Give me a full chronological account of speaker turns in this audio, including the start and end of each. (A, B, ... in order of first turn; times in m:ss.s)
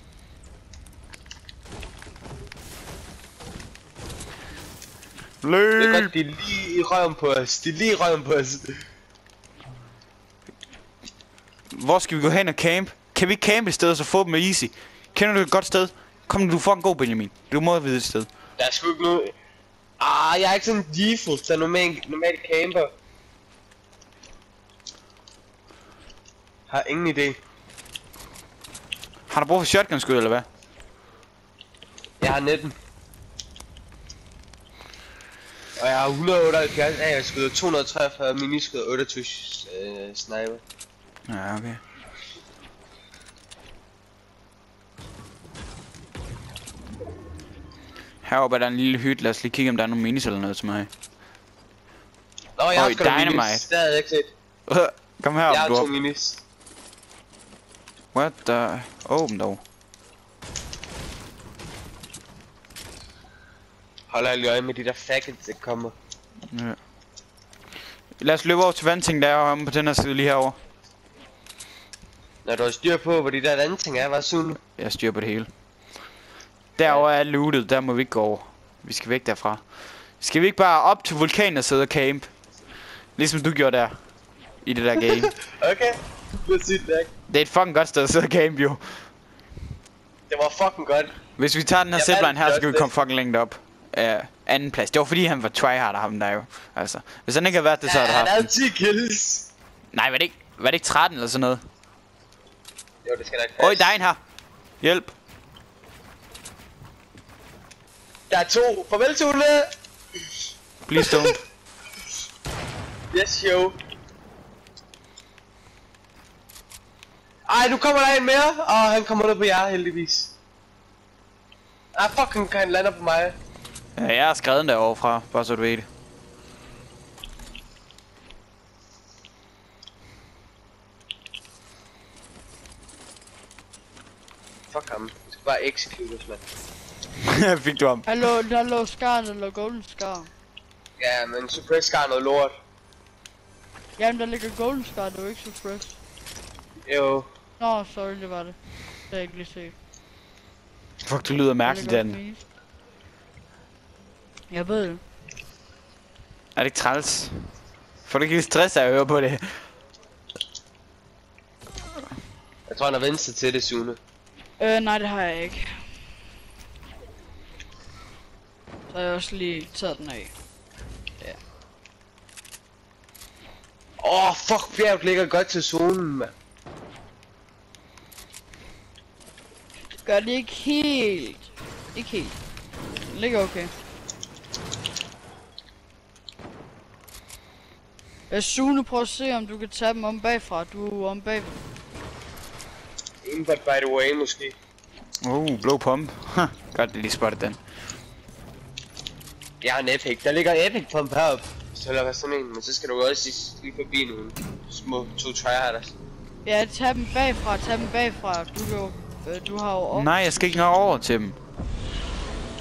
0:05.4-0:06.1 A
0:05.8-0:08.7 B
0:11.7-0:18.3 A
0:18.6-0:19.3 B
0:20.0-0:22.9 B
0:26.7-0:27.4 B
0:29.3-0:30.5 A
0:32.2-0:32.7 B
0:35.8-0:40.6 B
0:41.3-0:41.8 A
0:48.2-0:50.9 A
0:52.6-0:54.3 B
0:52.7-0:53.6 A
0:54.7-0:55.9 A
0:55.5-0:56.4 B
0:58.1-0:59.6 A
1:04.1-1:05.9 B
1:06.5-1:06.8 A
1:08.2-1:10.6 A
1:12.4-1:14.6 B
1:14.7-1:15.5 A
1:16.8-1:19.6 A
1:20.2-1:22.3 A
1:23.2-1:24.0 A
1:24.6-1:25.3 A
1:25.5-1:27.1 B
1:27.3-1:29.1 A
1:30.3-1:31.1 B
1:31.4-1:38.5 A
1:31.9-1:32.9 B
1:37.8-1:39.5 B
1:39.9-1:41.6 A
1:43.0-1:43.9 B
1:43.6-1:44.2 A
1:44.8-1:45.1 A
1:48.3-1:49.7 B
1:50.8-1:51.4 A
1:51.0-1:51.3 B
1:53.1-1:53.8 B
1:57.5-2:00.3 B
2:01.9-2:03.4 B
2:04.0-2:05.9 A
2:14.7-2:16.4 B
2:17.3-2:18.0 A
2:18.0-2:20.3 C
2:21.0-2:22.5 B
2:24.0-2:26.0 C
2:26.8-2:27.3 B
2:27.6-2:28.6 C
2:29.1-2:29.7 C
2:31.0-2:32.2 A
2:31.6-2:32.4 C
2:34.5-2:35.0 C
2:36.6-2:37.3 A
2:38.0-2:39.4 A
2:42.7-2:44.0 B
2:44.6-2:45.7 C
2:48.9-2:50.3 C
2:54.0-2:56.3 B
3:00.0-3:02.4 C
3:03.0-3:03.7 C
3:08.3-3:11.6 C
3:13.2-3:14.6 B
3:15.2-3:17.6 A
3:19.6-3:25.9 B
3:26.4-3:30.6 C
3:29.9-3:31.4 A